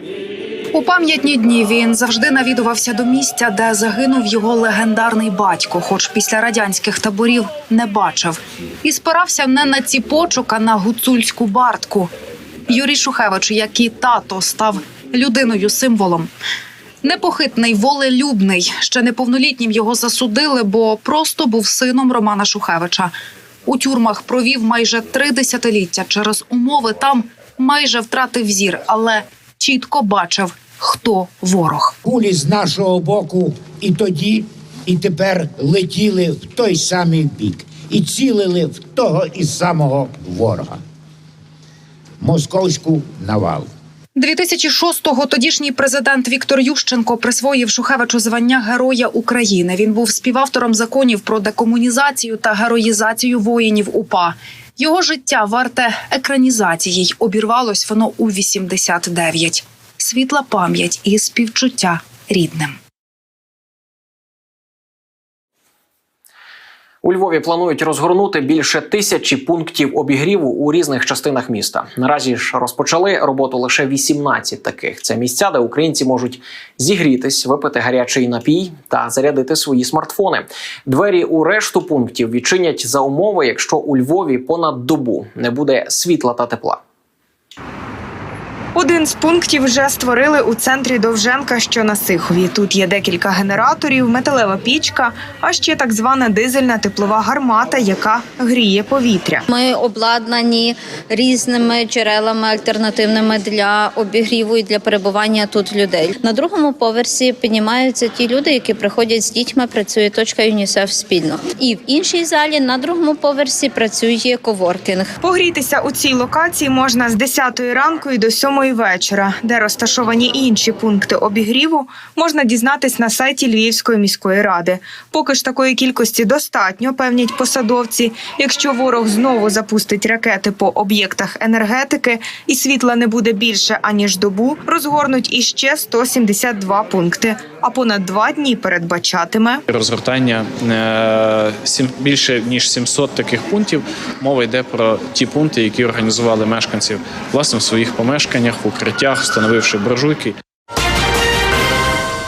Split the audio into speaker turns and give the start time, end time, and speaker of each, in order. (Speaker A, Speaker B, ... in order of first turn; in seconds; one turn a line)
Speaker A: 0.7-12.1
Speaker A: 12.7-16.3
Speaker A: 17.0-23.1
Speaker A: 23.6-31.9
Speaker B: 32.0-40.8
Speaker B: 42.2-43.7
Speaker A: 44.1-62.8
Speaker C: 67.0-86.8
Speaker D: 88.7-99.4
Speaker E: 99.5-115.1
Speaker D: 115.2-139.6
Speaker F: 139.7-150.3